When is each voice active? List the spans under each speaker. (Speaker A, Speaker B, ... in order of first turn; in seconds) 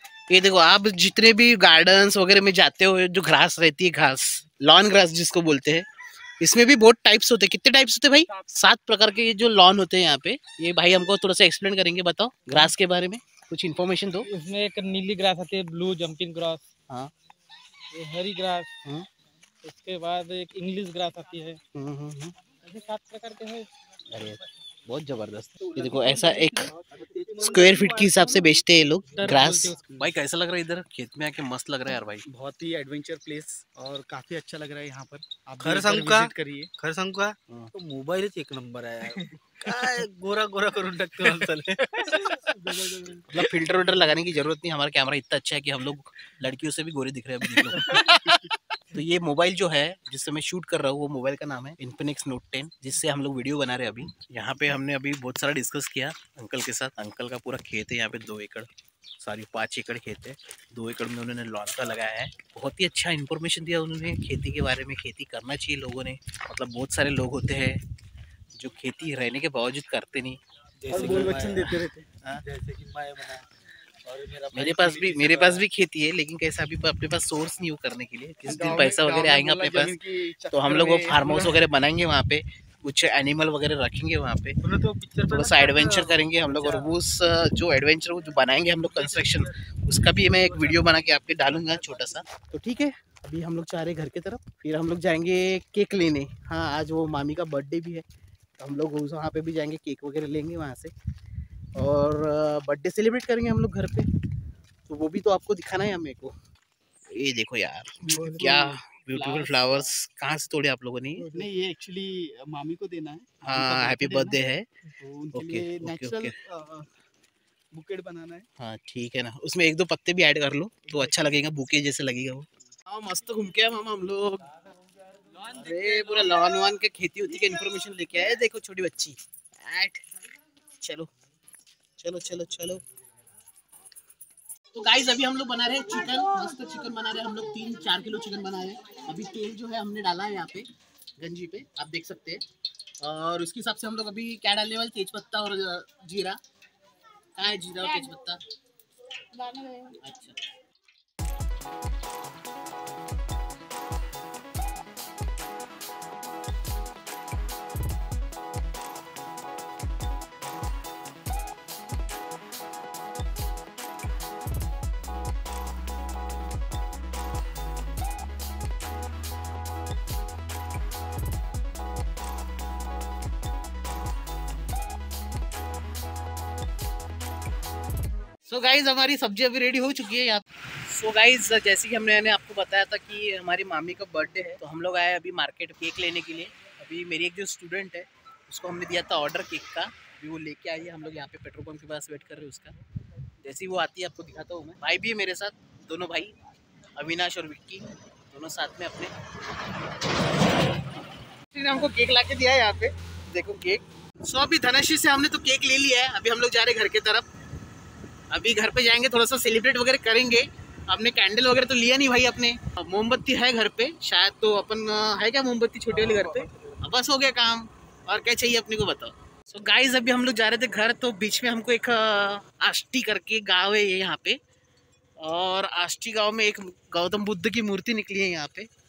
Speaker A: 0.3-5.8, 6.4-14.3, 21.7-22.3, 24.1-26.7, 27.4-32.2, 43.3-58.7, 59.2-67.8, 68.6-70.4, 70.9-72.4, 74.5-80.0, 80.5-84.6, 85.3-98.0, 98.6-100.9, 101.8-104.1, 104.9-106.3, 107.1-111.3, 113.4-114.7, 115.3-116.3, 118.6-124.4, 125.4-130.0, 130.8-131.1, 132.0-132.8, 134.7-140.7, 141.2-142.4, 143.0-146.4, 147.3-148.4, 149.4-150.4, 178.5-192.8, 193.4-196.3, 196.9-199.1, 201.5-207.2, 208.3-224.4, 225.2-228.7
Speaker B: 14.3-16.6, 17.9-18.7, 19.6-21.6, 22.7-23.7, 29.1-29.8
Speaker C: 25.6-28.4, 32.3-36.7, 42.5-43.3, 48.1-48.4, 70.9-72.1, 78.4-81.6, 108.0-109.9, 111.3-114.4, 114.9-116.9, 117.7-118.4
Speaker D: 35.6-42.5, 70.8-71.7, 72.4-73.4, 74.0-75.6, 84.6-86.9, 88.8-89.5, 90.2-92.2